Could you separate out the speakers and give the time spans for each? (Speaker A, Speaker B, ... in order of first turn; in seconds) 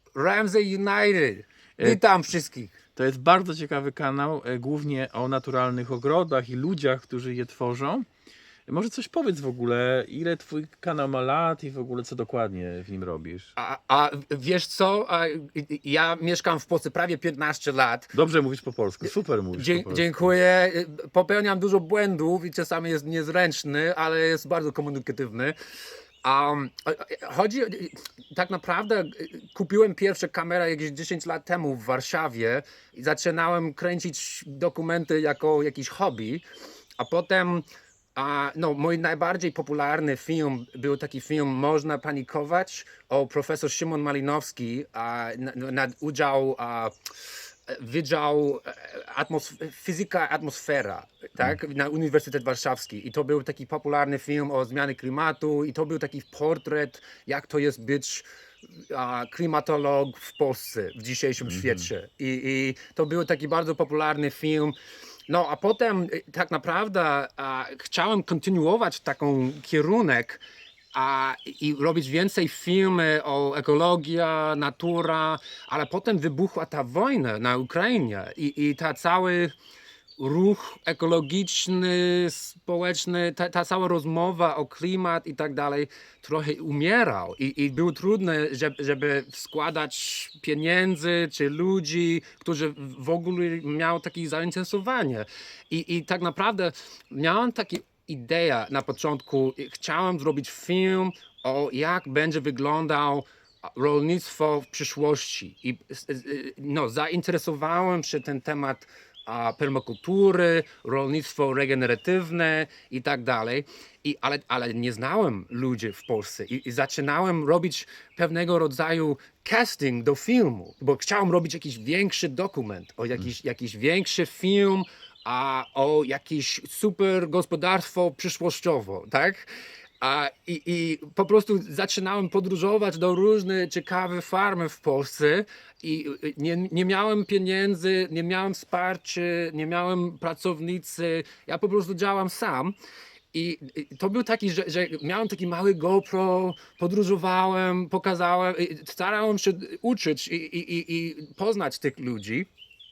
Speaker A: 0.1-2.7, 13.6-18.1, 19.0-25.6, 26.2-36.5, 37.0-64.8, 65.3-70.4, 70.9-79.5, 80.2-129.5, 130.0-142.8, 143.3-152.5
Speaker B: 3.0-8.1, 8.7-13.5, 18.1-20.3, 61.4-61.9